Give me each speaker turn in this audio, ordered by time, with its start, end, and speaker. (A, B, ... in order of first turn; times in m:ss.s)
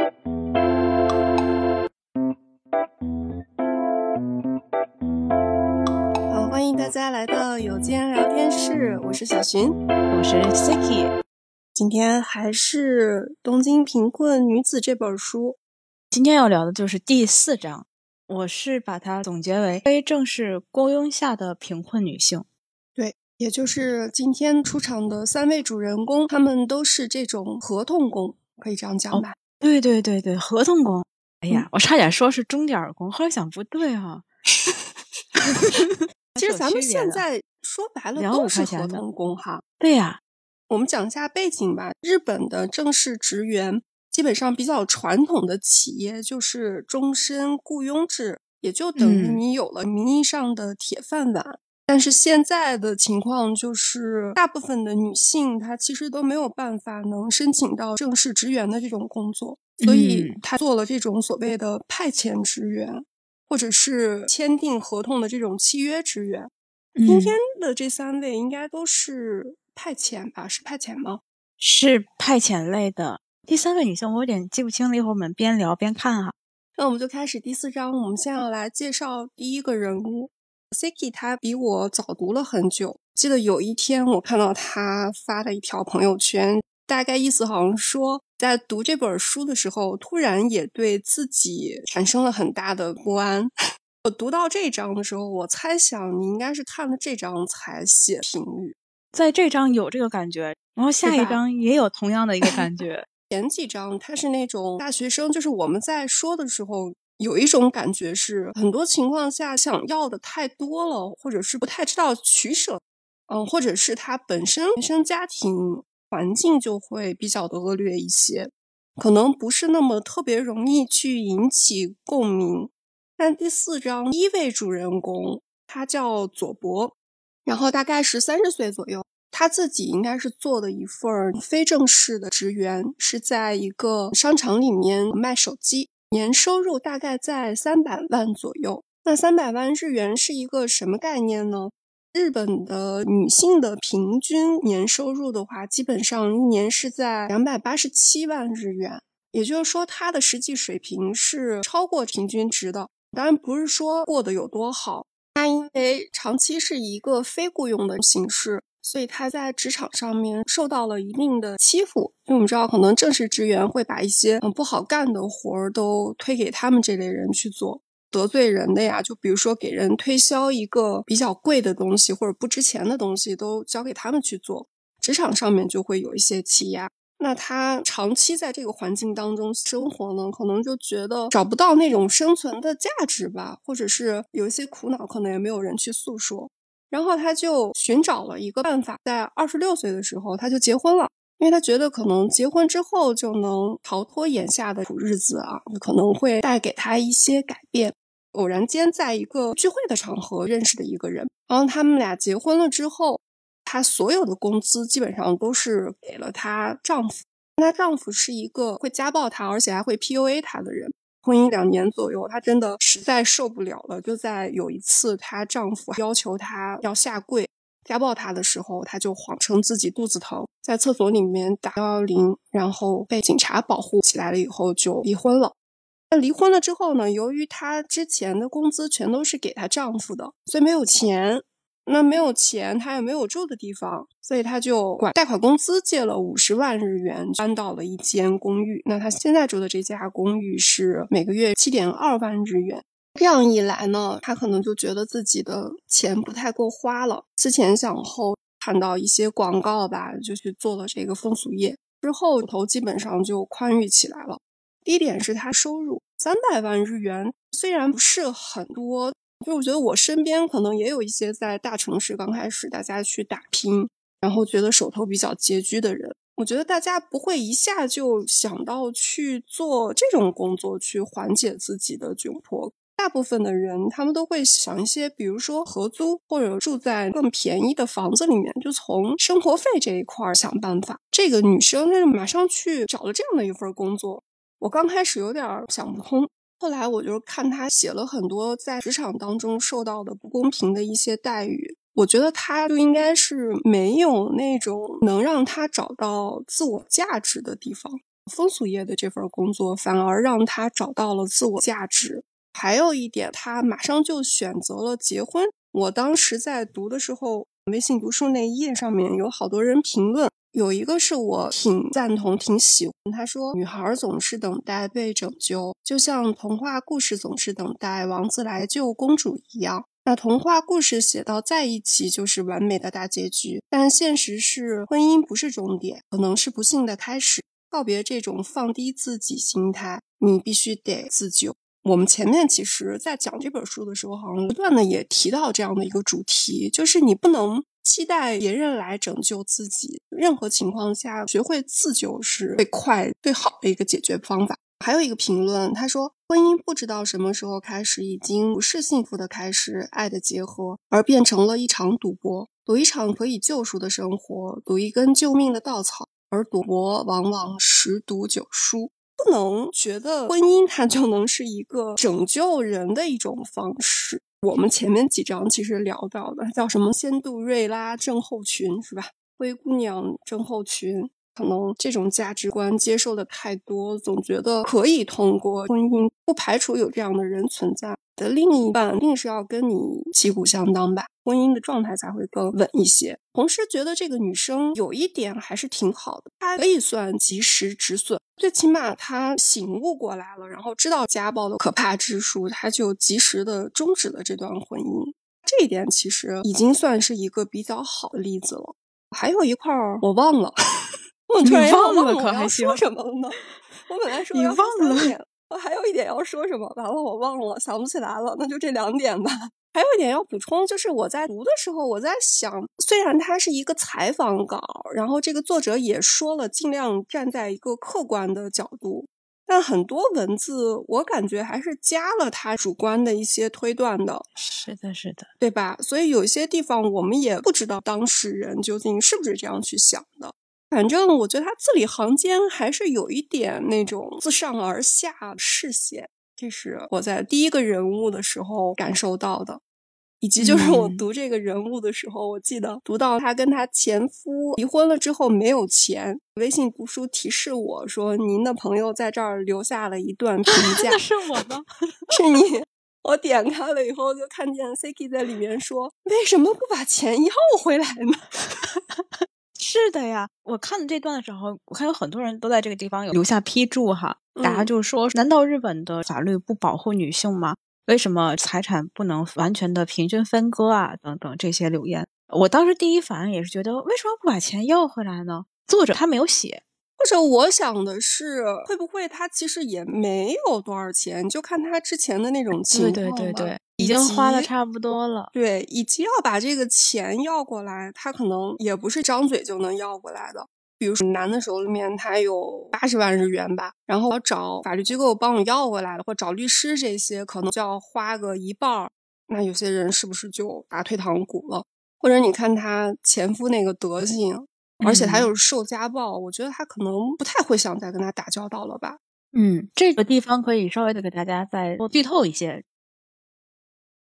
0:06.3-0:09.8 A
0:10.1-0:11.1 B
0:11.8-0:15.6 A
0:16.1-0:22.4 B
0:23.0-0:29.4 A
0:29.1-0:34.2 B
0:35.4-0:37.2 B
0:36.4-0:39.6 A
0:38.1-0:39.0 B
0:39.8-0:40.2 B
0:40.7-1:06.5 A
0:49.0-0:49.4 B
0:59.8-1:00.4 B
1:07.0-1:07.4 B
1:07.1-1:11.2 A
1:11.6-1:16.3 B
1:16.8-1:33.5 A
1:34.0-1:38.8 A
1:39.1-1:43.0 B
1:41.0-1:41.4 A
1:43.3-2:06.9 A
2:07.4-3:45.5 A
3:46.1-6:40.6 A
6:41.3-7:04.3 A
6:41.4-6:42.8 B
6:44.3-6:45.1 B
7:04.4-7:05.3 B
7:05.4-7:19.6 A
7:20.2-7:31.0 A
7:20.4-7:21.0 B
7:30.5-7:32.1 B
7:32.1-7:38.4 A
7:38.6-7:56.6 B
7:44.3-7:44.7 A
7:57.0-8:04.5 A
8:02.7-8:05.3 B
8:05.3-8:29.0 A
8:24.8-8:25.3 B
8:29.3-8:32.6 B